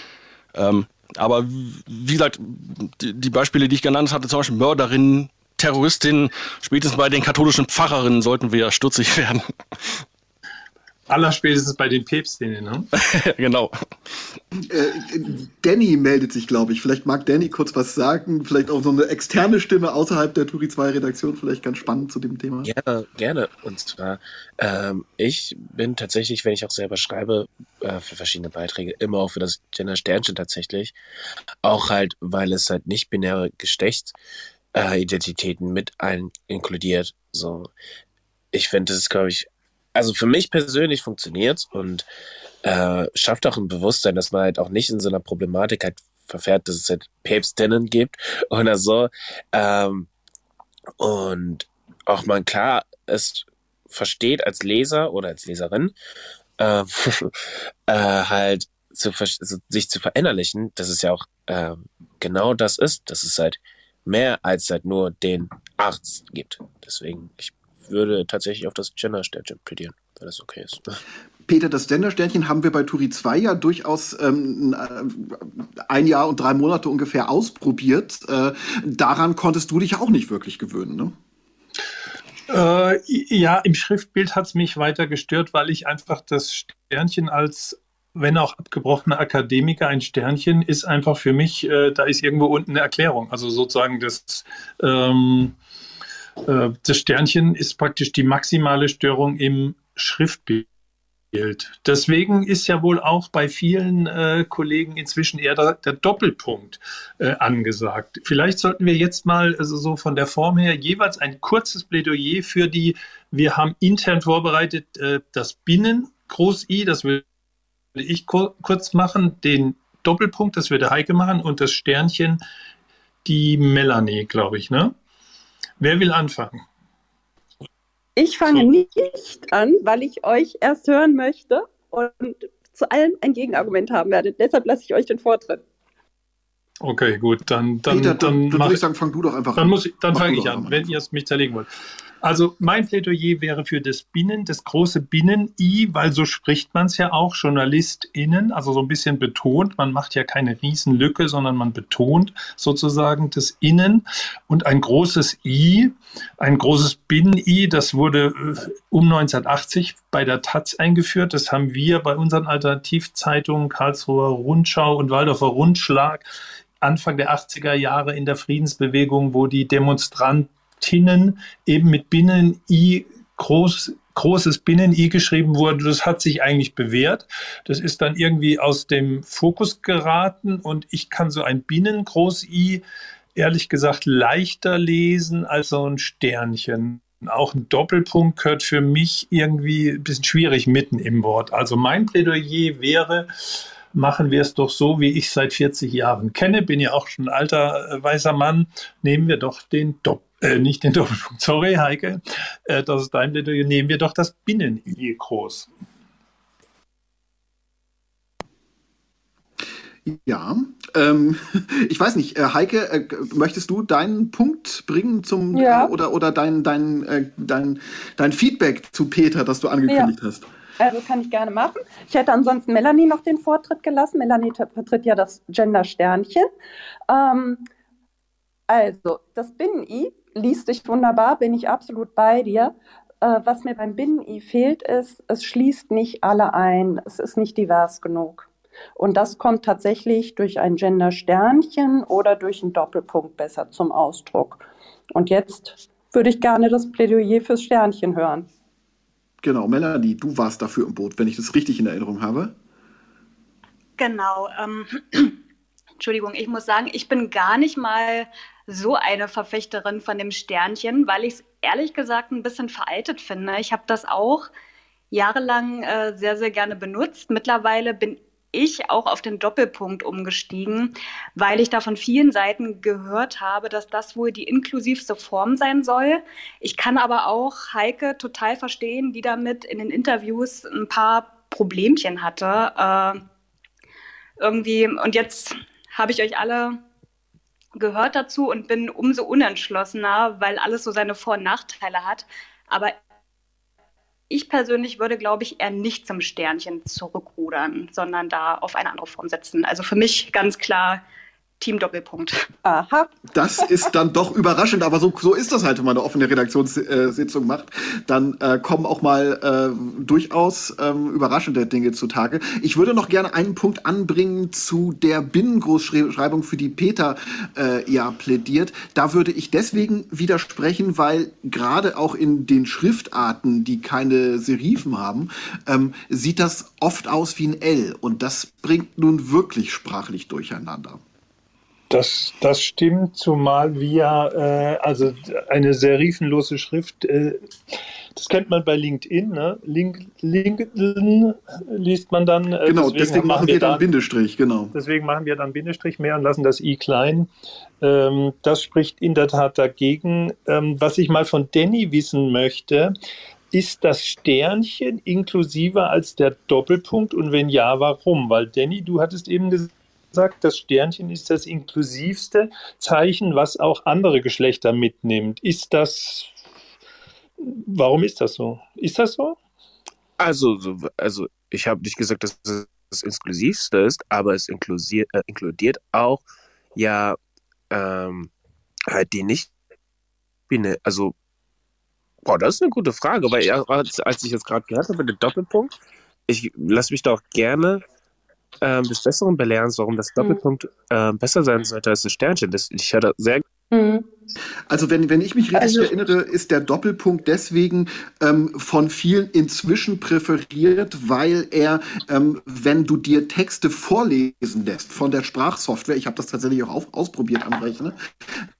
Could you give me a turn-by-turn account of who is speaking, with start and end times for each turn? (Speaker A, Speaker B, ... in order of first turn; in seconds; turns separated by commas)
Speaker A: 0.6-9.4, Speaker B: 11.1-12.9, Speaker A: 13.0-13.7, Speaker C: 14.7-22.7, Speaker D: 22.6-31.0, Speaker D: 31.6-34.2, Speaker D: 34.7-37.7, Speaker D: 38.5-42.1, Speaker D: 42.6-50.1, Speaker D: 51.0-55.9, Speaker D: 56.6-57.3, Speaker D: 57.9-71.0, Speaker C: 71.5-81.1, Speaker B: 82.5-95.5, Speaker B: 96.5-100.7, Speaker B: 101.3-117.2, Speaker B: 118.0-122.4, Speaker B: 123.3-124.9, Speaker B: 125.8-126.6, Speaker E: 128.2-135.7, Speaker B: 136.8-138.8, Speaker C: 137.9-141.0, Speaker B: 139.6-141.7, Speaker B: 142.2-166.2, Speaker B: 166.8-182.8, Speaker B: 183.4-193.3, Speaker B: 193.9-205.7, Speaker C: 210.1-220.5, Speaker E: 215.5-215.9, Speaker E: 219.9-220.2, Speaker E: 220.8-226.5, Speaker E: 227.1-227.7, Speaker E: 228.7-248.5, Speaker C: 249.4-252.5, Speaker F: 254.0-255.4, Speaker F: 256.0-264.5, Speaker F: 265.1-283.2, Speaker F: 284.4-286.8, Speaker F: 287.8-293.0, Speaker F: 294.3-301.0, Speaker F: 301.6-302.4, Speaker E: 302.6-303.9, Speaker C: 303.3-331.0, Speaker B: 331.9-337.4, Speaker B: 338.2-343.9, Speaker C: 342.6-344.7, Speaker B: 344.7-347.3, Speaker B: 347.8-352.9, Speaker B: 353.5-366.3, Speaker B: 367.4-369.4, Speaker D: 370.2-377.2, Speaker D: 377.7-378.3, Speaker D: 378.9-379.5, Speaker D: 380.5-381.1, Speaker D: 382.2-385.7, Speaker D: 386.3-387.8, Speaker D: 388.6-393.4, Speaker E: 393.7-394.1, Speaker C: 394.7-408.0, Speaker E: 395.6-395.9